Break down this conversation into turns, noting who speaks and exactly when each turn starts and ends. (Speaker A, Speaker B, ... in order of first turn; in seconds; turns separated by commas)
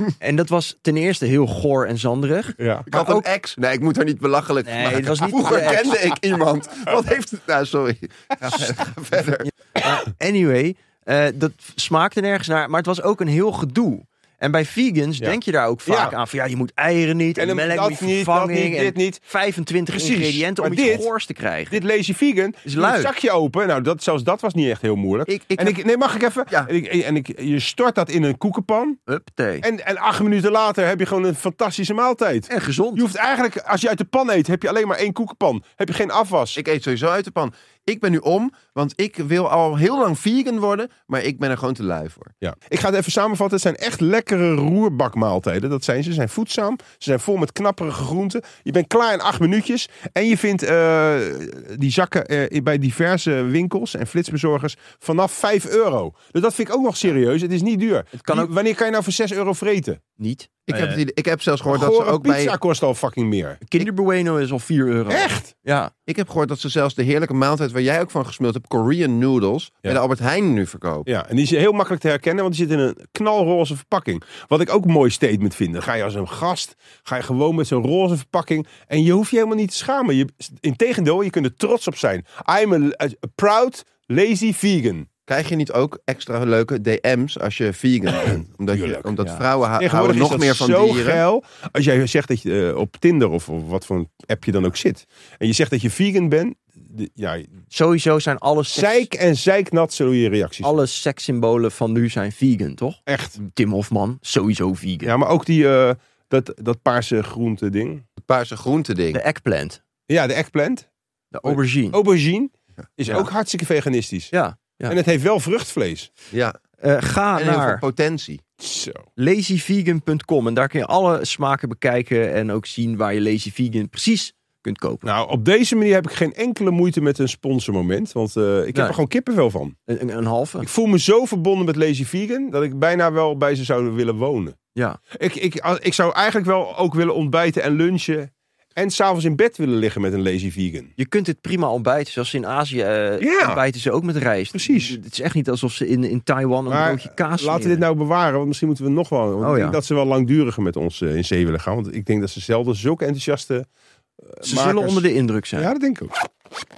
Speaker A: 0.2-3.3, Speaker B: 2.6-2.9, Speaker C: 2.9-9.5, Speaker A: 4.6-6.0, Speaker A: 9.4-21.8, Speaker B: 15.2-16.1, Speaker B: 17.4-19.2, Speaker B: 19.9-21.1, Speaker B: 21.7-29.0, Speaker A: 22.6-23.1, Speaker C: 25.3-25.8, Speaker A: 29.1-29.6, Speaker B: 29.6-36.6, Speaker A: 32.5-33.0, Speaker C: 36.5-42.3, Speaker B: 42.4-60.0, Speaker A: 58.1-58.5, Speaker A: 60.2-61.0, Speaker C: 60.7-62.5, Speaker B: 61.7-63.8, Speaker A: 63.6-65.9, Speaker B: 65.1-65.5, Speaker C: 66.1-71.1, Speaker B: 71.0-85.1, Speaker C: 85.3-91.2, Speaker B: 88.1-89.1, Speaker B: 89.8-97.5, Speaker A: 97.7-99.1, Speaker B: 98.7-100.7, Speaker A: 100.6-105.1, Speaker B: 103.1-103.4, Speaker B: 105.0-108.0, Speaker C: 108.2-109.2, Speaker A: 109.1-109.8, Speaker B: 110.1-110.9, Speaker A: 111.3-112.0, Speaker B: 111.4-114.3, Speaker A: 114.3-115.0, Speaker B: 114.9-116.1, Speaker A: 116.8-117.8, Speaker C: 117.4-118.4, Speaker B: 118.6-119.1, Speaker A: 119.2-125.0, Speaker B: 125.0-129.8, Speaker A: 129.9-130.7, Speaker B: 130.6-134.6, Speaker B: 135.1-140.9, Speaker A: 141.0-147.8, Speaker B: 143.2-143.6, Speaker B: 144.5-145.0, Speaker B: 146.7-153.7, Speaker A: 149.4-149.8, Speaker B: 154.3-155.0, Speaker A: 154.4-155.7, Speaker B: 155.6-156.1